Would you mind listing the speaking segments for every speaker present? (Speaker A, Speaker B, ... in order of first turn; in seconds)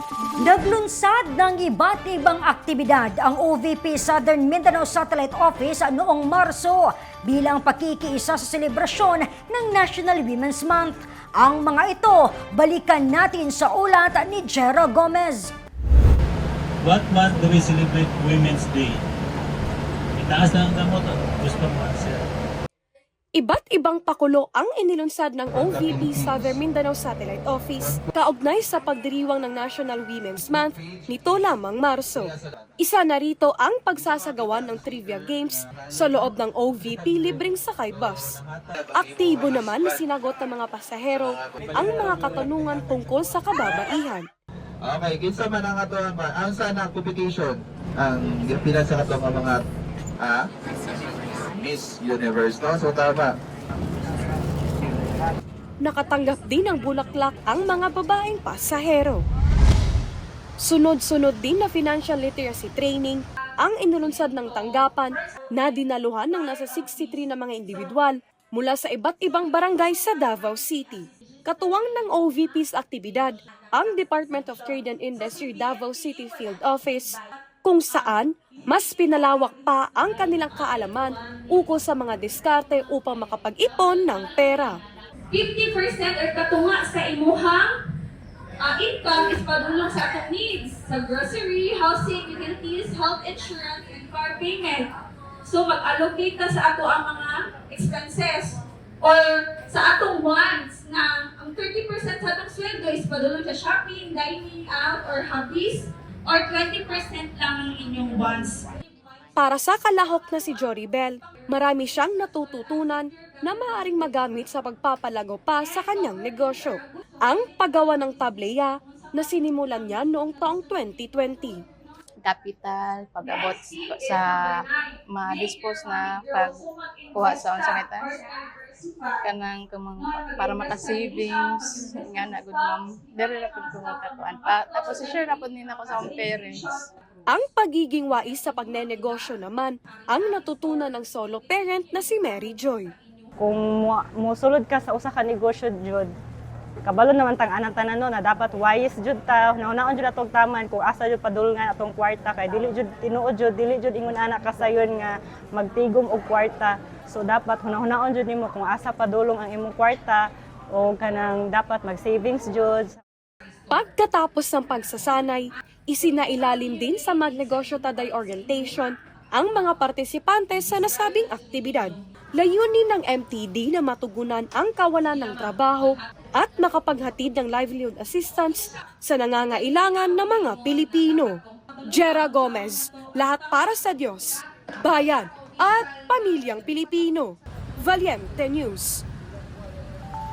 Speaker A: 0.4-15.5
Speaker B: 16.8-19.0, 20.2-22.2
Speaker C: 23.4-38.4, 38.9-44.3, 55.8-59.2, 60.6-84.8, 109.4-121.6, 137.3-142.9, 163.7-189.0
Speaker D: 25.6-26.4, 38.0-40.0, 41.4-42.2, 44.8-49.6, 50.2-50.5, 51.3-53.4
Speaker E: 85.3-87.8, 88.6-94.9, 95.5-108.7, 123.2-129.2, 130.0-132.8, 133.4-136.7
Speaker F: 122.3-124.3, 125.1-126.6, 127.2-128.1, 129.3-131.4, 132.0-136.7
Speaker G: 143.4-146.1, 146.9-162.9